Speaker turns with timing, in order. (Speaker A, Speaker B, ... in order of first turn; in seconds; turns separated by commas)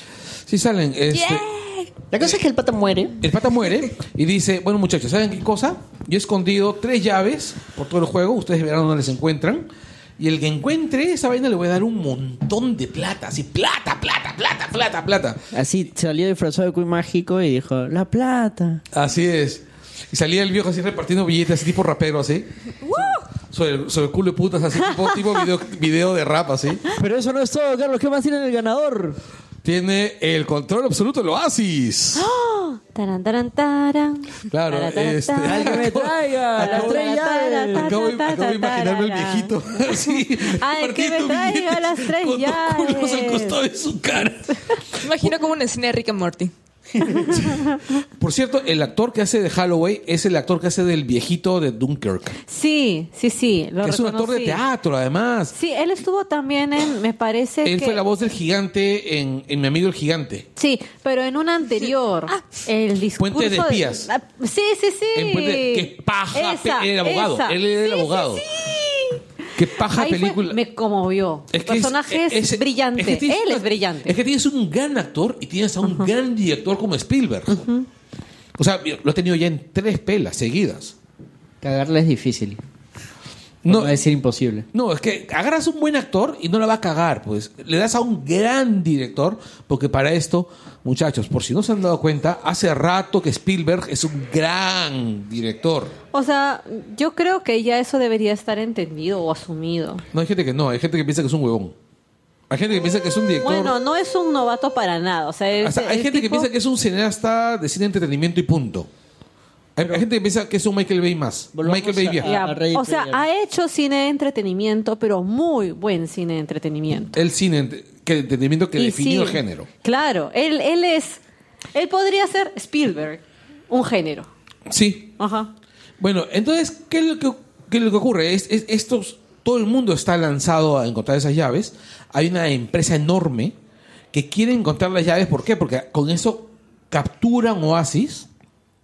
Speaker A: 0.5-1.5, Speaker B: 1.1-1.9, Speaker C: 2.1-3.2, Speaker A: 3.2-9.7, Speaker A: 10.2-15.4, Speaker C: 15.5-18.8, Speaker A: 18.9-26.9, Speaker B: 22.9-23.2, Speaker C: 26.9-29.2, Speaker A: 29.6-32.2, Speaker D: 32.2-35.9, Speaker A: 34.5-45.3, Speaker C: 35.4-37.9, Speaker D: 36.6-39.5, Speaker D: 40.4-43.6, Speaker B: 45.0-46.5, Speaker A: 47.3-52.4, Speaker D: 47.3-47.8, Speaker D: 52.5-54.6, Speaker A: 53.8-55.5, Speaker D: 55.5-58.0, Speaker A: 57.6-60.5, Speaker D: 60.6-69.2, Speaker A: 63.2-64.1, Speaker A: 65.2-68.5, Speaker A: 69.6-70.6, Speaker D: 69.8-74.2, Speaker A: 71.5-77.7, Speaker D: 77.5-77.8, Speaker A: 78.6-81.0, Speaker C: 81.6-82.6, Speaker A: 83.6-84.0, Speaker C: 83.7-84.7, Speaker A: 84.7-95.9, Speaker D: 96.1-100.0, Speaker A: 100.1-101.7, Speaker A: 102.5-103.7, Speaker D: 103.4-106.5, Speaker A: 105.6-108.9, Speaker A: 109.8-112.3, Speaker C: 111.5-113.2, Speaker D: 112.2-117.2, Speaker A: 117.2-119.7, Speaker D: 118.8-121.2, Speaker D: 121.7-124.3, Speaker A: 124.7-125.1, Speaker D: 125.2-125.5, Speaker A: 126.0-133.5, Speaker A: 134.1-138.3